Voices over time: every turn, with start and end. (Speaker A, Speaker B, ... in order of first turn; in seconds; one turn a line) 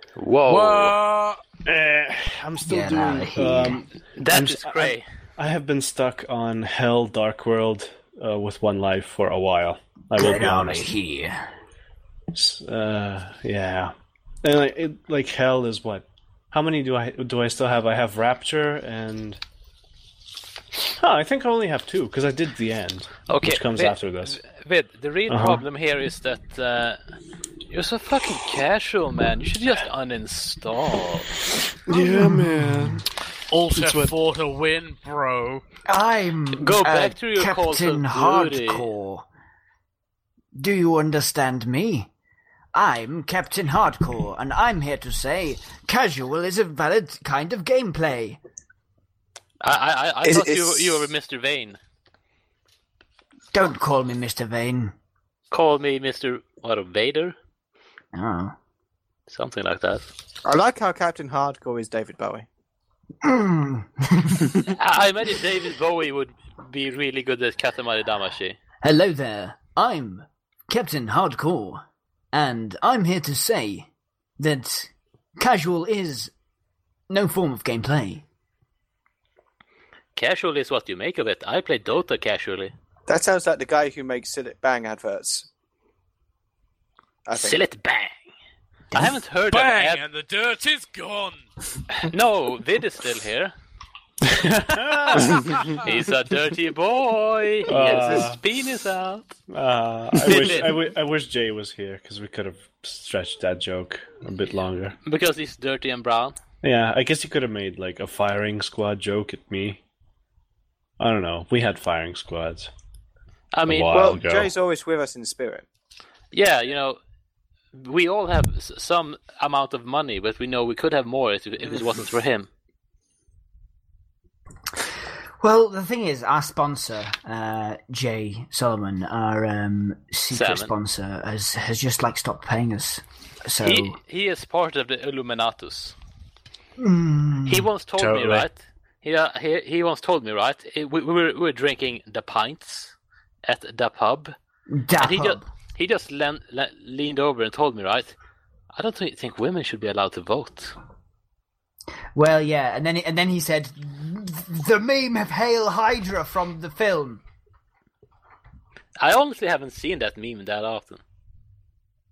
Speaker A: 0.2-0.9
Speaker B: 0.5-1.4
Speaker C: 1.6-10.9
Speaker D: 2.7-3.9
Speaker A: 4.2-5.0
Speaker D: 10.2-11.5
Speaker C: 12.3-19.4
Speaker C: 21.0-24.4
Speaker A: 23.3-27.0
Speaker C: 25.3-25.6
Speaker A: 27.7-31.3
Speaker C: 31.9-33.1
Speaker D: 31.9-33.0
Speaker B: 33.5-35.6
Speaker C: 33.8-34.1
Speaker D: 35.9-39.3
Speaker A: 36.5-38.9
Speaker D: 40.5-42.1
Speaker D: 42.7-48.4
Speaker A: 49.6-51.8
Speaker E: 50.2-51.1
Speaker D: 53.5-54.9
Speaker A: 55.5-57.4
Speaker D: 58.1-58.5
Speaker A: 59.3-60.1
Speaker E: 60.5-62.5
Speaker D: 63.2-64.7
Speaker A: 64.7-68.6
Speaker D: 68.8-73.9
Speaker D: 74.4-76.3
Speaker D: 77.1-78.2
Speaker A: 80.2-82.7
Speaker E: 83.1-85.5
Speaker E: 87.3-87.6
Speaker A: 87.3-88.2
Speaker A: 88.9-90.0
Speaker B: 89.5-91.5
Speaker A: 92.0-93.5
Speaker C: 94.3-95.5
Speaker B: 95.1-95.8
Speaker A: 95.3-99.3
Speaker C: 97.7-98.4
Speaker C: 99.5-105.0
Speaker A: 100.2-100.8
Speaker A: 105.0-106.4
Speaker C: 106.6-109.8
Speaker C: 111.0-112.7
Speaker A: 113.5-114.1
Speaker C: 113.7-114.5
Speaker E: 113.9-115.7
Speaker A: 116.3-117.0
Speaker A: 117.7-122.5
Speaker D: 125.4-134.0
Speaker A: 130.3-130.7
Speaker A: 133.6-136.0
Speaker D: 136.8-137.7
Speaker A: 137.5-144.3
Speaker B: 138.0-138.5
Speaker D: 144.7-145.5
Speaker A: 145.0-148.2
Speaker A: 148.7-150.8
Speaker D: 152.2-157.2
Speaker A: 159.0-161.0